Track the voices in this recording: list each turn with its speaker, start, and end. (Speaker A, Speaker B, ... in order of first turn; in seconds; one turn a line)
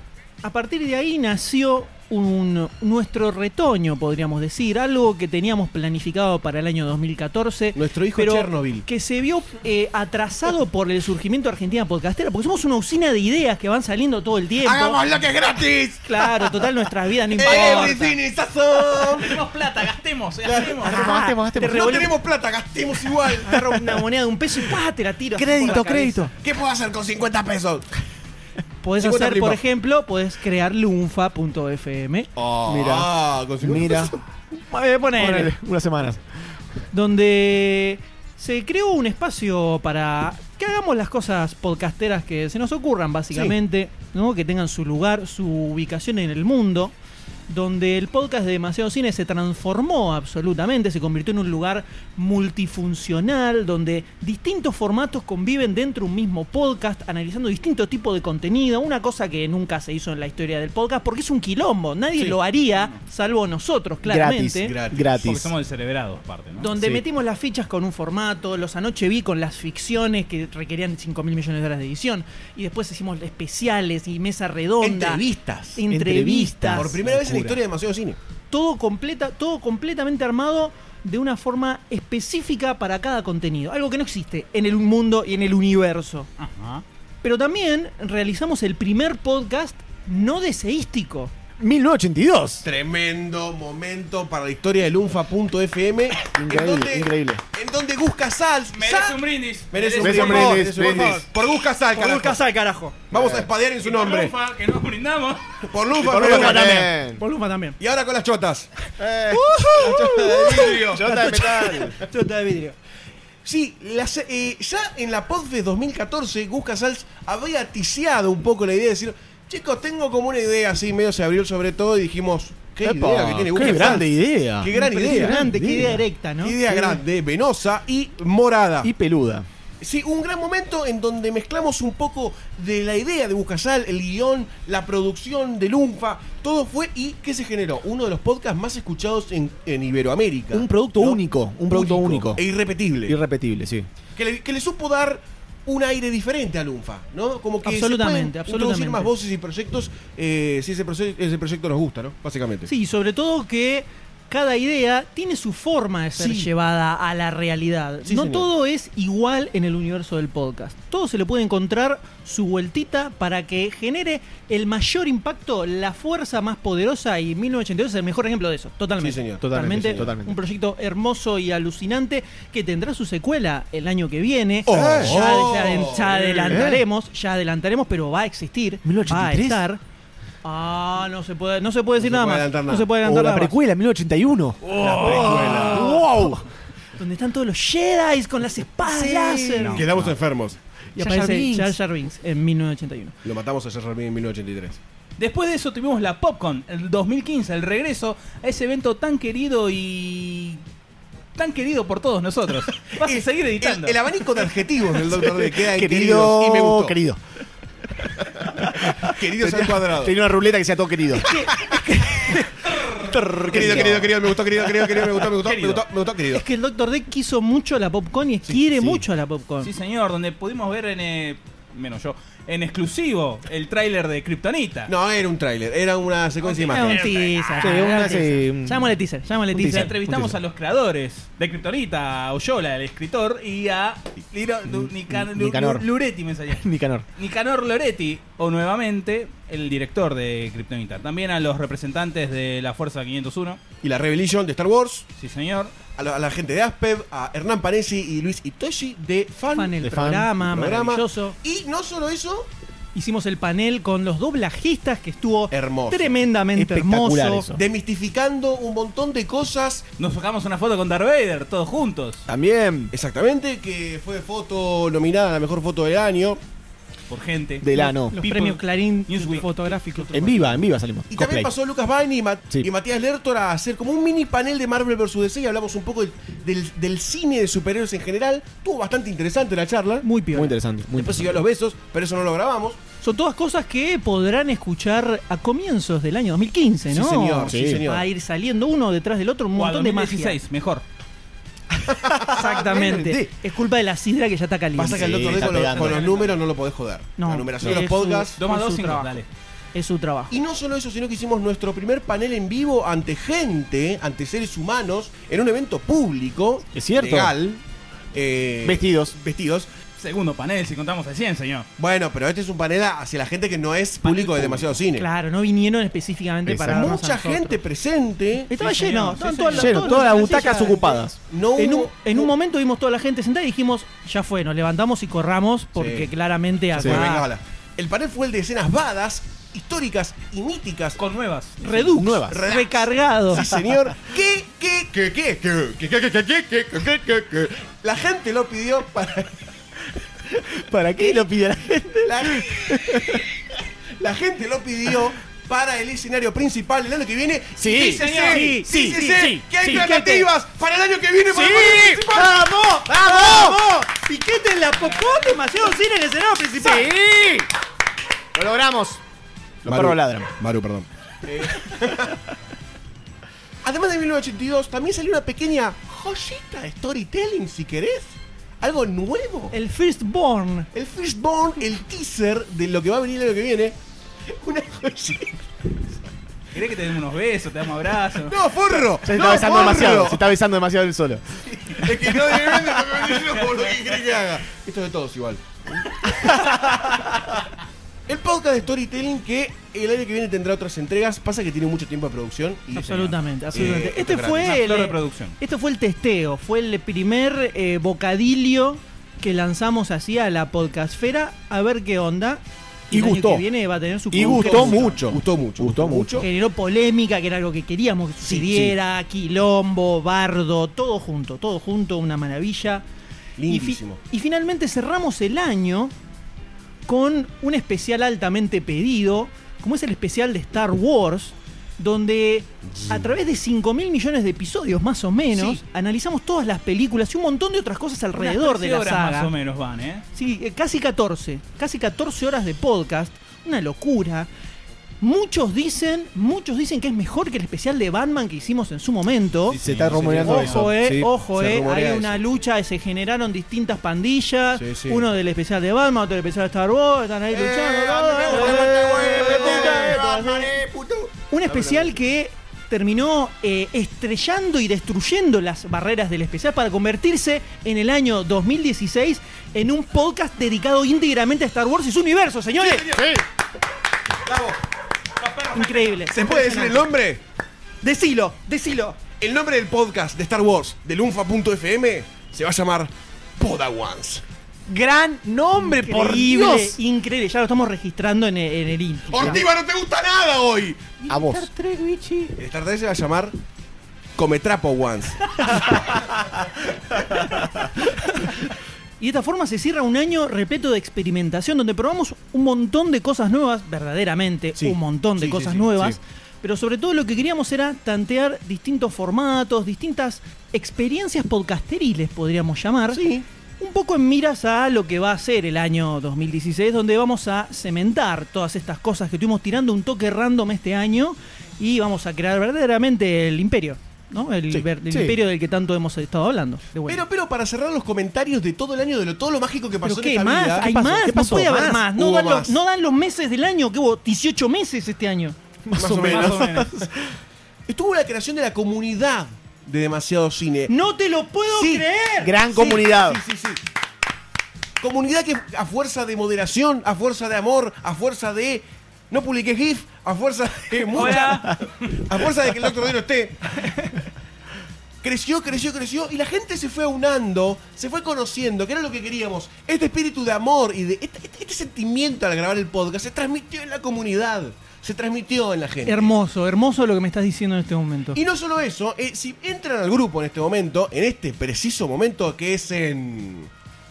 Speaker A: 0.4-15.0
Speaker B: 7.7-8.8
Speaker B: 14.6-16.6
Speaker A: 16.0-18.1
Speaker B: 17.3-19.4
Speaker C: 17.4-18.1
Speaker C: 18.8-21.0
Speaker B: 20.4-20.9
Speaker D: 20.8-22.1
Speaker A: 20.8-22.1
Speaker B: 21.6-24.0
Speaker A: 23.4-26.3
Speaker D: 25.4-26.3
Speaker B: 26.3-27.9
Speaker A: 28.8-32.3
Speaker B: 29.0-29.6
Speaker B: 32.4-34.2
Speaker D: 32.6-34.1
Speaker A: 34.7-35.5
Speaker D: 35.1-36.2
Speaker A: 36.9-46.9
Speaker A: 47.5-64.7
Speaker C: 62.2-63.0
Speaker D: 64.0-65.5
Speaker B: 64.6-65.5
Speaker C: 65.0-66.7
Speaker A: 66.6-75.2
Speaker D: 66.7-67.0
Speaker B: 74.8-75.8
Speaker A: 75.7-77.0
Speaker D: 75.9-77.5
Speaker B: 76.7-78.2
Speaker C: 77.2-77.5
Speaker A: 78.5-86.3
Speaker C: 86.4-86.8
Speaker A: 87.2-91.3
Speaker D: 91.6-92.7
Speaker B: 92.6-102.4
Speaker D: 96.2-97.4
Speaker C: 98.7-100.6
Speaker D: 100.0-101.2
Speaker A: 100.2-101.2
Speaker A: 101.9-103.0
Speaker B: 103.1-104.3
Speaker D: 103.1-103.5
Speaker C: 103.8-105.4
Speaker B: 105.6-106.9
Speaker D: 106.0-107.2
Speaker A: 106.1-107.8
Speaker B: 107.8-108.7
Speaker D: 109.0-112.0
Speaker A: 109.3-112.8
Speaker B: 109.8-112.0
Speaker B: 113.4-125.4
Speaker D: 122.8-126.0
Speaker A: 124.7-126.6
Speaker B: 126.4-128.9
Speaker D: 126.7-127.0
Speaker D: 128.8-129.4
Speaker B: 129.8-143.2
Speaker D: 140.5-142.4
Speaker D: 143.1-143.9
Speaker B: 144.2-152.7
Speaker A: 147.6-149.1
Speaker A: 152.7-179.8
Speaker B: 156.2-156.5
Speaker B: 158.0-158.5
Speaker B: 169.0-170.1
Speaker D: 169.4-170.4
Speaker D: 174.7-175.4
Speaker B: 174.7-176.7
Speaker D: 176.4-176.8
Speaker D: 178.8-179.6
Speaker A: 180.4-183.5
Speaker B: 182.0-182.9
Speaker D: 183.0-186.4
Speaker C: 184.6-185.8
Speaker B: 184.8-185.9
Speaker A: 185.3-186.3
Speaker A: 187.0-189.8
Speaker D: 188.8-189.8
Speaker C: 189.6-190.1
Speaker B: 189.7-190.6
Speaker D: 190.9-191.8
Speaker A: 190.9-193.2
Speaker B: 193.2-194.8
Speaker C: 195.2-200.6
Speaker C: 201.3-204.1
Speaker B: 203.0-206.9
Speaker D: 205.1-207.2
Speaker D: 208.4-211.4
Speaker B: 208.9-210.1
Speaker A: 211.2-212.5
Speaker D: 212.2-214.2
Speaker B: 213.5-216.4
Speaker C: 215.4-215.8
Speaker A: 216.3-219.7
Speaker D: 218.7-219.0
Speaker C: 219.6-224.9
Speaker B: 224.9-227.2
Speaker C: 226.4-227.8
Speaker A: 226.7-229.9
Speaker D: 227.6-228.9
Speaker D: 229.5-230.4
Speaker C: 229.6-243.6
Speaker D: 234.7-235.8
Speaker D: 236.5-237.0
Speaker B: 243.8-245.1
Speaker C: 245.2-245.7
Speaker B: 245.9-249.8
Speaker A: 249.5-251.4
Speaker D: 249.8-250.3
Speaker B: 250.4-252.5
Speaker A: 252.9-257.5
Speaker B: 255.5-256.2
Speaker D: 256.5-257.6
Speaker B: 257.5-259.8
Speaker C: 260.0-262.2
Speaker D: 262.3-262.9
Speaker B: 262.9-266.4
Speaker C: 267.1-270.5
Speaker D: 267.6-268.1
Speaker A: 267.7-270.5
Speaker D: 270.1-271.5
Speaker B: 271.1-280.1
Speaker A: 280.0-280.6
Speaker D: 280.3-281.4
Speaker B: 280.9-282.8
Speaker A: 283.0-290.4
Speaker B: 286.9-288.1
Speaker D: 287.4-287.8
Speaker C: 289.5-290.8
Speaker D: 291.8-293.3
Speaker B: 292.1-292.6
Speaker A: 292.3-295.4
Speaker B: 294.8-298.4
Speaker D: 294.9-296.0
Speaker C: 295.3-296.4
Speaker A: 297.2-299.1
Speaker C: 298.4-299.3
Speaker A: 299.7-300.3
Speaker B: 300.3-307.6
Speaker D: 306.7-307.3
Speaker B: 308.1-309.7
Speaker D: 308.6-309.1
Speaker C: 310.0-311.7
Speaker B: 311.8-315.1
Speaker C: 314.0-314.7
Speaker A: 314.9-317.6
Speaker D: 316.4-316.9
Speaker B: 316.7-318.5
Speaker A: 318.5-321.0
Speaker C: 318.6-320.2
Speaker D: 319.5-321.2
Speaker B: 320.2-322.3
Speaker A: 321.5-327.3
Speaker B: 325.7-326.1
Speaker B: 326.7-331.0
Speaker D: 326.8-327.1
Speaker C: 331.0-331.8
Speaker A: 331.6-333.4
Speaker D: 331.9-332.5
Speaker B: 332.0-339.4
Speaker D: 340.3-343.3
Speaker B: 342.0-343.2
Speaker B: 344.0-352.3
Speaker D: 347.6-350.2
Speaker C: 348.0-348.4
Speaker A: 348.0-350.2
Speaker D: 351.3-353.6
Speaker A: 352.1-356.9
Speaker C: 354.9-355.3
Speaker D: 356.6-357.5
Speaker D: 358.3-359.0
Speaker D: 359.6-360.3
Speaker B: 359.6-362.2
Speaker B: 363.6-369.5
Speaker A: 369.5-370.7
Speaker B: 370.7-373.8
Speaker B: 374.3-375.4
Speaker C: 376.5-378.4
Speaker B: 378.2-380.2
Speaker D: 379.0-381.4
Speaker B: 381.7-387.0
Speaker D: 382.0-382.6
Speaker B: 388.1-394.6
Speaker A: 392.8-405.1
Speaker C: 392.8-393.1
Speaker C: 394.4-395.4
Speaker D: 402.9-403.4
Speaker D: 404.1-406.3
Speaker B: 404.1-406.3
Speaker A: 406.2-412.8
Speaker B: 408.3-408.7
Speaker D: 408.4-408.7
Speaker B: 413.4-414.0
Speaker A: 413.5-415.9
Speaker A: 416.9-429.3
Speaker B: 422.7-423.1
Speaker C: 428.1-430.0
Speaker A: 430.1-434.3
Speaker A: 435.0-439.6
Speaker C: 439.5-440.7
Speaker D: 439.6-440.8
Speaker A: 440.2-450.5
Speaker B: 440.6-442.2
Speaker B: 444.6-445.0
Speaker B: 447.3-451.9
Speaker D: 448.2-450.5
Speaker A: 451.3-462.9
Speaker B: 462.6-463.2
Speaker D: 462.9-463.2
Speaker B: 464.2-464.6
Speaker B: 465.2-467.2
Speaker A: 465.5-466.8
Speaker A: 467.8-469.0
Speaker B: 469.2-474.2
Speaker D: 474.7-476.8
Speaker A: 475.7-479.4
Speaker B: 479.1-481.0
Speaker D: 481.1-481.5
Speaker C: 481.1-481.5
Speaker B: 482.4-483.3
Speaker B: 484.1-485.9
Speaker A: 487.9-488.3
Speaker A: 489.0-503.0
Speaker B: 494.6-495.9
Speaker B: 502.9-503.2
Speaker A: 503.6-517.0
Speaker D: 514.5-515.2
Speaker B: 516.9-520.8
Speaker A: 519.8-525.4
Speaker D: 520.6-521.9
Speaker B: 521.8-522.6
Speaker D: 525.6-527.1
Speaker B: 525.7-526.6
Speaker C: 526.0-526.7
Speaker B: 527.7-530.7
Speaker A: 530.7-532.4
Speaker B: 531.5-531.9
Speaker D: 532.2-533.2
Speaker B: 532.5-533.6
Speaker B: 534.8-543.7
Speaker C: 540.9-541.7
Speaker B: 545.0-556.1
Speaker A: 555.8-558.2
Speaker B: 558.1-563.5